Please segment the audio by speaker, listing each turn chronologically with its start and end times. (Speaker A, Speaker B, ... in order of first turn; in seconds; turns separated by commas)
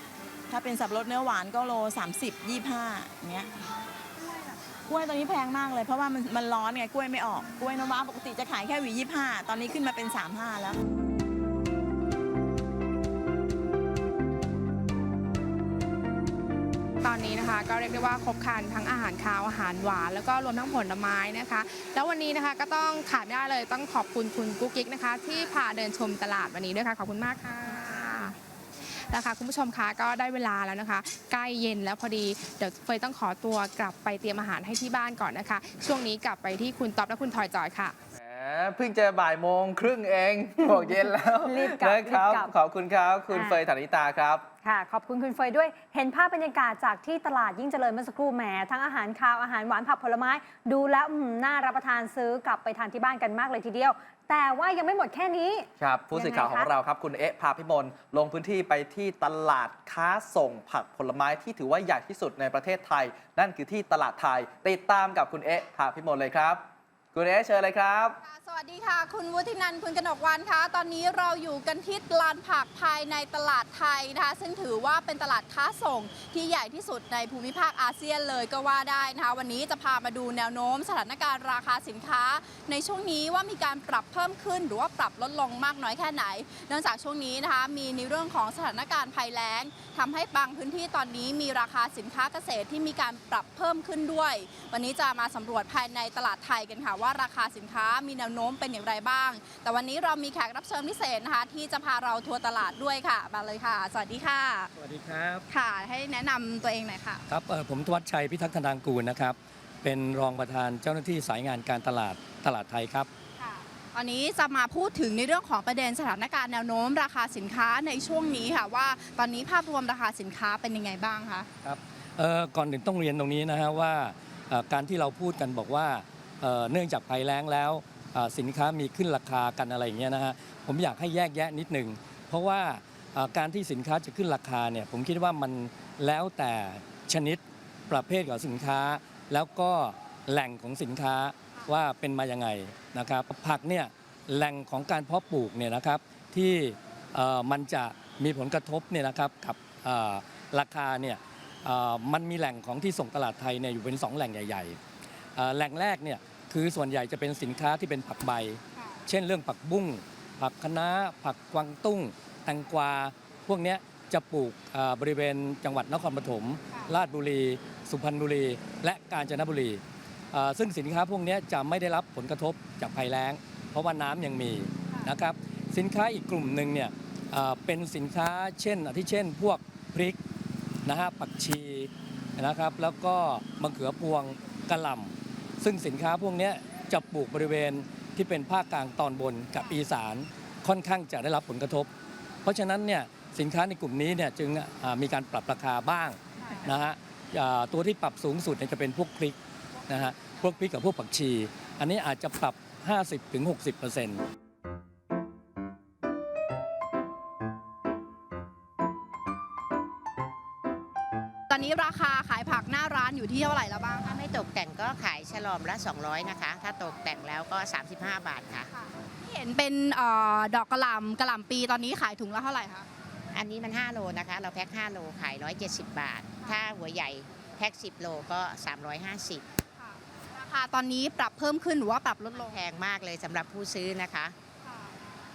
Speaker A: 0.5-3.5, Speaker A: 4.9-10.8, Speaker B: 17.0-28.4, Speaker B: 29.0-37.9, Speaker C: 38.1-44.5, Speaker D: 40.6-42.5, Speaker D: 43.3-43.6, Speaker D: 44.6-56.7, Speaker C: 55.8-68.2, Speaker E: 68.2-104.7, Speaker F: 104.8-105.4, Speaker E: 105.5-107.2, Speaker F: 107.3-113.1, Speaker E: 113.4-121.5, Speaker F: 121.6-154.8, Speaker F: 155.3-180.2, Speaker F: 180.8-191.9, Speaker F: 192.4-199.4, Speaker E: 196.4-196.7, Speaker F: 199.9-204.2, Speaker E: 199.9-200.5, Speaker E: 211.5-214.1, Speaker G: 214.0-218.7, Speaker E: 218.8-222.9, Speaker G: 223.3-229.4, Speaker E: 229.8-232.6, Speaker G: 232.3-234.3, Speaker E: 234.6-234.9